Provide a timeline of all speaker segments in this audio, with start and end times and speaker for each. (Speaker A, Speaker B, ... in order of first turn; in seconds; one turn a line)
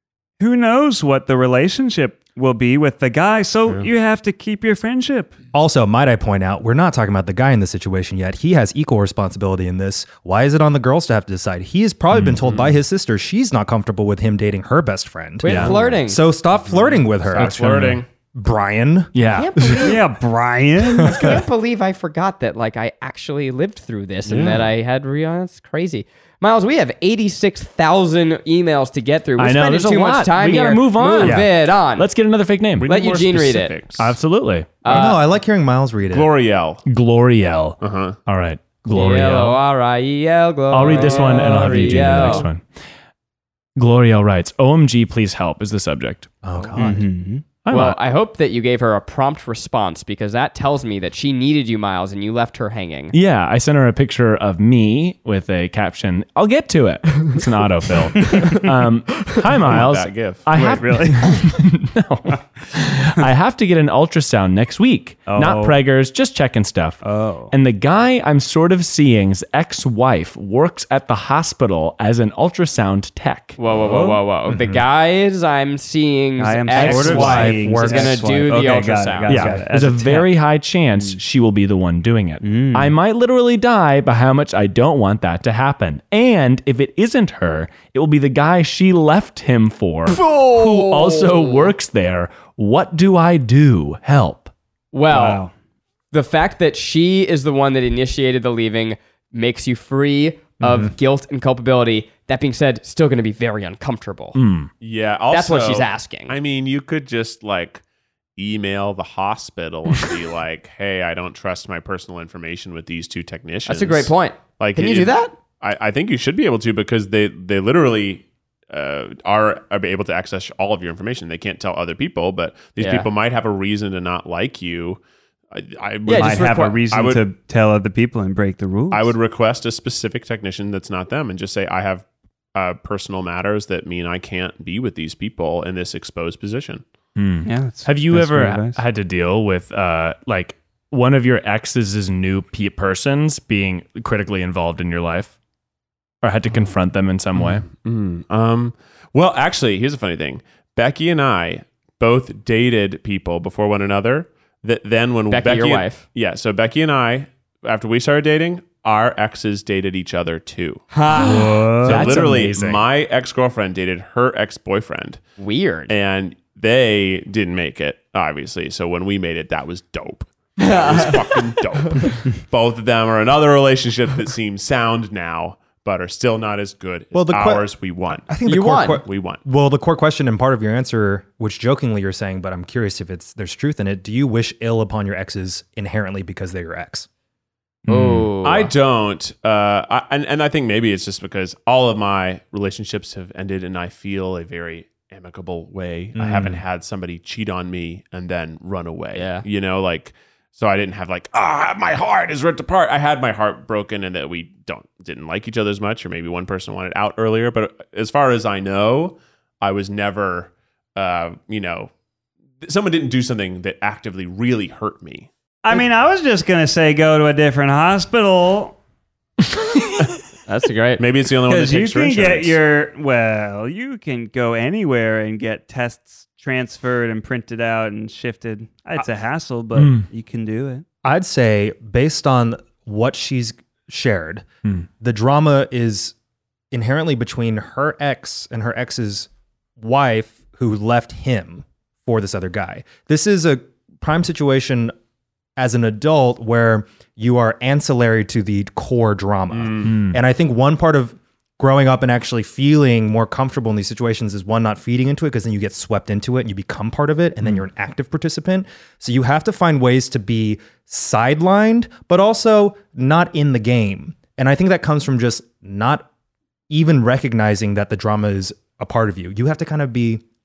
Speaker A: 0.4-5.3
Speaker B: 5.5-19.1
Speaker C: 12.1-12.4
Speaker D: 12.4-12.7
Speaker E: 15.4-16.2
Speaker C: 15.4-15.8
Speaker D: 16.7-18.1
Speaker C: 17.4-18.0
Speaker C: 19.1-19.9
Speaker E: 19.3-20.0
Speaker A: 19.8-21.4
Speaker E: 21.0-32.1
Speaker D: 24.3-24.6
Speaker C: 29.4-32.9
Speaker D: 32.8-34.2
Speaker E: 32.9-33.8
Speaker C: 34.0-35.0
Speaker E: 34.8-35.2
Speaker B: 34.9-36.3
Speaker D: 36.1-36.8
Speaker C: 36.9-39.6
Speaker D: 37.8-38.2
Speaker E: 38.9-42.5
Speaker C: 40.7-42.6
Speaker A: 40.8-42.4
Speaker C: 43.8-46.3
Speaker B: 46.4-47.1
Speaker A: 46.8-47.5
Speaker C: 47.6-48.0
Speaker E: 47.7-53.2
Speaker C: 53.1-73.6
Speaker D: 59.7-60.5
Speaker A: 60.5-61.5
Speaker A: 65.3-65.8
Speaker A: 67.0-67.5
Speaker E: 73.6-79.6
Speaker A: 73.9-74.2
Speaker B: 74.5-74.8
Speaker A: 76.4-80.3
Speaker B: 76.8-78.5
Speaker C: 79.3-94.5
Speaker A: 82.4-83.0
Speaker E: 90.1-91.7
Speaker E: 94.9-95.4
Speaker A: 95.1-95.5
Speaker E: 96.1-104.4
Speaker B: 100.6-100.9
Speaker C: 104.3-104.7
Speaker D: 104.8-107.8
Speaker E: 105.3-106.3
Speaker D: 108.4-125.0
Speaker E: 113.7-115.3
Speaker E: 122.8-123.1
Speaker D: 125.5-127.2
Speaker E: 126.1-126.8
Speaker A: 126.1-129.1
Speaker D: 128.9-136.8
Speaker C: 137.2-145.3
Speaker A: 137.5-138.8
Speaker C: 146.2-147.7
Speaker D: 147.7-160.8
Speaker E: 155.3-156.0
Speaker E: 161.0-161.8
Speaker A: 161.1-162.3
Speaker C: 161.2-162.8
Speaker D: 161.8-165.2
Speaker E: 165.4-165.9
Speaker D: 165.9-178.3
Speaker E: 170.6-172.1
Speaker B: 177.1-187.1
Speaker E: 178.5-179.0
Speaker D: 179.0-179.4
Speaker C: 187.9-188.3
Speaker E: 187.9-188.7
Speaker D: 188.4-211.9
Speaker B: 196.2-196.6
Speaker E: 199.1-199.4
Speaker D: 212.6-215.3
Speaker A: 215.6-218.8
Speaker E: 220.5-221.0
Speaker D: 221.0-222.6
Speaker A: 221.5-230.8
Speaker C: 229.8-230.1
Speaker B: 231.0-236.2
Speaker B: 236.7-244.9
Speaker B: 245.6-266.1
Speaker D: 249.5-249.9
Speaker C: 249.8-250.2
Speaker B: 266.7-270.2